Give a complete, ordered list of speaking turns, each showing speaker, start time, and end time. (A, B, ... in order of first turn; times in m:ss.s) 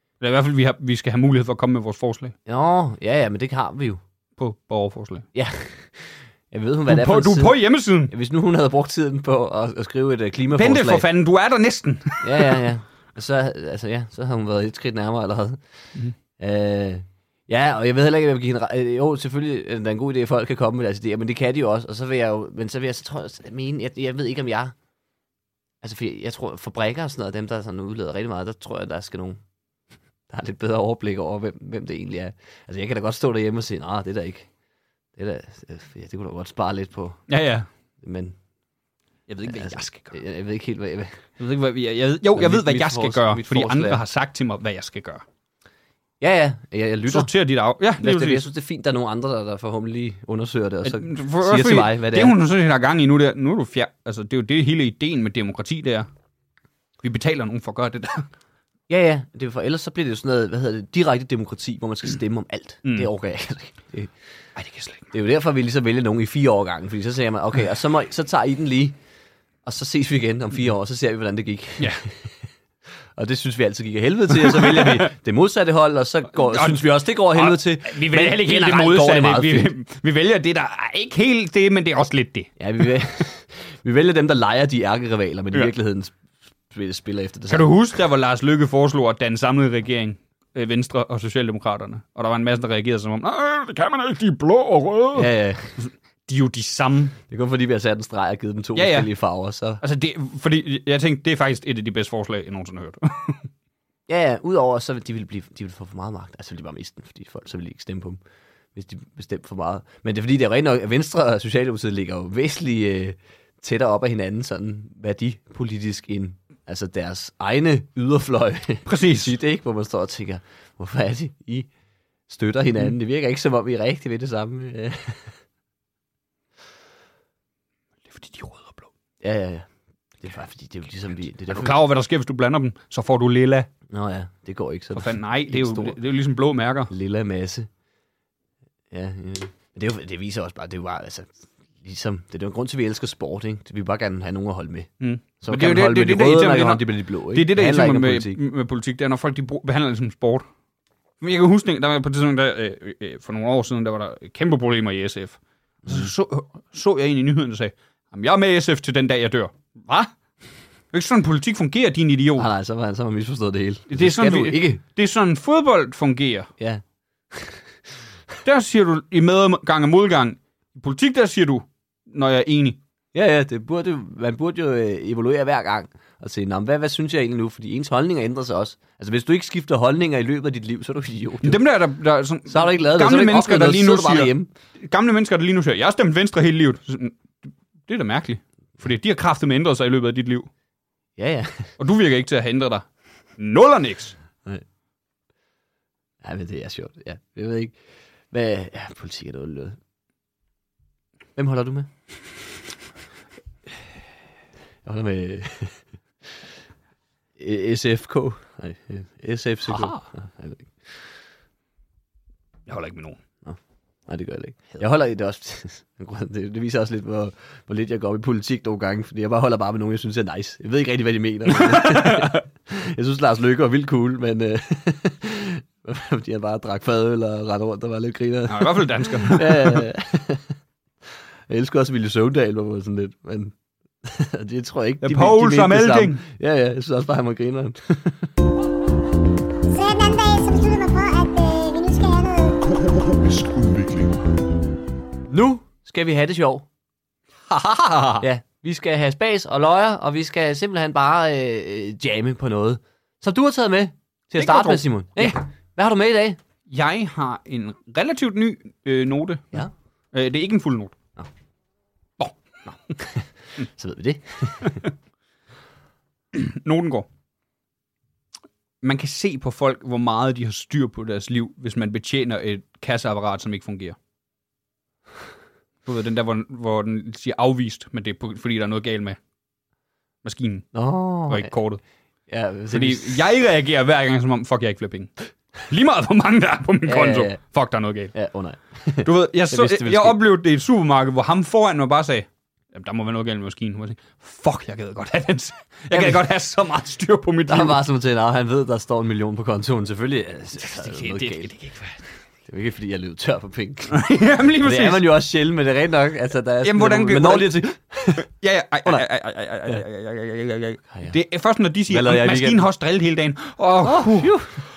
0:00.2-0:02.4 A
0:02.5-0:04.0 B
0:04.4-0:05.3 A
0:05.3-0:11.1 B
0:06.9-0:08.1 A
0:10.6-0:12.7 A
0:12.2-0:15.6 B
0:16.4-0:24.8 B
0:25.8-0:29.4 B
0:30.3-0:34.5 B
0:35.2-0:37.2 B
0:37.3-0:37.7 A
0:38.0-0:38.4 B
0:39.3-0:40.2 A
0:39.4-0:41.3 B
0:41.4-0:45.2 A
0:42.3-0:44.0 B
0:46.2-0:47.3 B
0:47.1-0:48.4 A
0:48.0-0:52.4 B
0:50.8-0:56.1 A
0:57.0-0:58.3 A
0:58.9-1:04.2 B
1:04.6-1:05.1 A
1:05.1-1:09.0 B
1:09.6-1:12.4 B
1:13.2-1:19.7 B
1:14.3-1:15.1 A
1:16.3-1:22.5 A
1:22.6-1:26.2 B
1:26.7-1:27.7 B
1:27.5-1:37.2 A
1:35.2-1:35.8 B
1:37.3-1:39.8 B
1:38.8-1:39.1 A
1:39.8-1:43.5 A
1:44.1-1:48.2 B
1:48.8-2:01.7 B
1:58.9-1:59.3 A
2:02.3-2:05.4 B
2:08.1-2:08.9 A
2:09.2-2:11.8 B
2:11.5-2:13.7 A
2:13.9-2:16.0 B
2:14.9-2:16.9 A
2:16.9-2:17.7 B
2:18.9-2:28.4 B
2:25.0-2:30.5 A
2:31.2-2:40.1 A
2:35.8-2:36.1 B
2:40.9-2:42.5 A
2:42.4-2:44.8 B
2:43.9-2:46.5 A
2:46.6-2:47.7 B
2:48.4-2:52.8 A
2:53.1-3:01.6 B
3:01.4-3:10.5 A
3:02.5-3:04.5 B
3:11.2-3:11.7 B
3:11.8-3:12.9 A
3:13.4-3:14.2 A
3:16.2-3:17.8 B
3:18.3-3:19.8 B
3:21.4-3:22.1 B
3:24.8-3:26.3 B
3:27.4-3:31.1 B
3:29.7-3:30.0 A
3:32.7-3:33.2 A
3:33.4-3:50.6 B
3:41.5-3:42.4 A
3:48.5-3:49.8 A
3:51.5-3:58.3 B
3:55.0-3:56.2 A
3:59.7-4:03.5 C
4:05.3-4:06.7 B
4:07.5-4:08.2 A
4:08.2-4:16.4 B
4:14.4-4:15.4 A
4:16.7-4:21.0 A
4:22.7-4:24.9 B
4:26.3-4:27.1 A
4:28.8-4:34.0 A
4:35.8-4:39.2 A
4:40.2-4:40.7 A
4:40.7-4:41.5 B
4:41.3-4:41.8 A
4:42.3-4:43.2 B
4:42.7-4:48.1 A
4:46.9-4:47.4 B
4:48.1-4:50.2 B
4:49.0-4:57.8 A
4:55.9-4:56.2 B
4:57.5-5:01.5 B
5:00.6-5:02.0 A
5:02.4-5:04.0 B
5:03.9-5:05.0 A
5:04.6-5:08.3 B
5:06.6-5:07.6 A
5:08.3-5:14.4 A
5:10.9-5:11.2 B
5:11.9-5:12.7 B
5:13.8-5:14.6 B